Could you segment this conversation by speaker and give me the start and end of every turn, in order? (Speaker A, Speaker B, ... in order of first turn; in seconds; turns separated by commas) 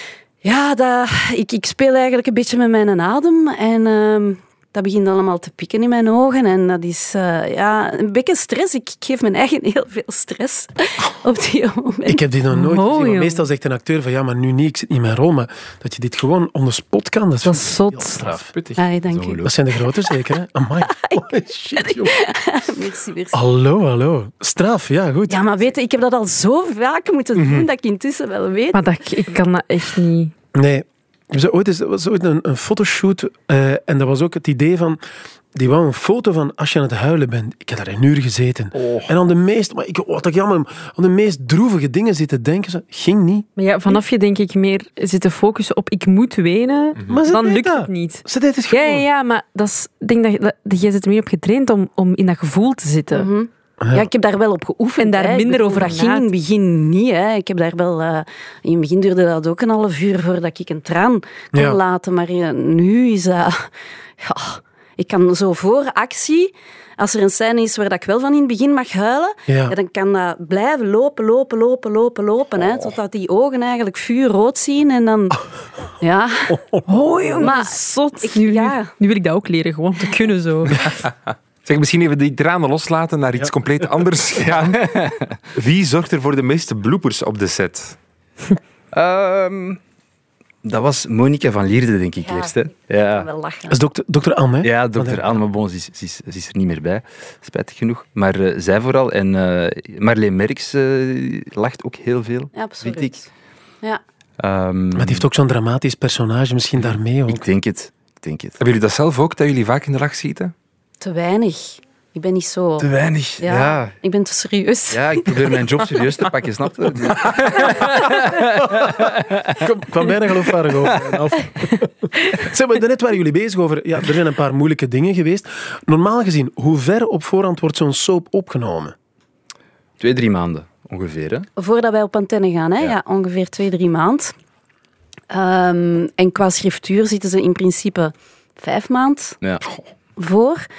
Speaker A: 0.4-12.2, Speaker B: 12.1-18.5, Speaker C: 12.5-13.4, Speaker C: 17.4-18.4, Speaker D: 18.5-18.8, Speaker A: 18.8-19.5, Speaker E: 19.1-19.5, Speaker B: 19.4-22.2, Speaker A: 20.8-23.4, Speaker B: 23.3-25.4, Speaker A: 25.3-28.8, Speaker C: 28.7-30.3, Speaker B: 30.5-35.0, Speaker B: 35.5-43.5, Speaker D: 38.8-39.1, Speaker C: 43.6-53.3, Speaker B: 47.1-49.0, Speaker A: 53.1-63.7, Speaker B: 53.8-54.1, Speaker C: 55.0-56.3, Speaker B: 61.5-61.8, Speaker A: 64.2-75.4, Speaker B: 69.5-69.8, Speaker A: 76.0-76.6, Speaker B: 76.5-77.5, Speaker C: 76.9-80.9, Speaker A: 77.4-78.9, Speaker D: 81.7-84.8, Speaker E: 84.4-85.4, Speaker D: 85.5-88.0, Speaker E: 88.9-89.8, Speaker E: 90.6-93.3, Speaker A: 92.2-93.8, Speaker B: 93.7-95.2, Speaker E: 94.6-103.2, Speaker A: 102.5-103.3, Speaker E: 104.4-105.3, Speaker B: 105.0-107.4, Speaker E: 107.3-108.6, Speaker D: 108.6-110.5, Speaker A: 111.0-112.9, Speaker E: 112.8-113.9, Speaker A: 113.4-115.7, Speaker E: 114.9-119.7, Speaker B: 118.7-128.9, Speaker E: 120.6-121.3, Speaker E: 130.0-131.5, Speaker A: 131.6-134.3, Speaker A: 135.3-139.4, Speaker A: 140.2-140.6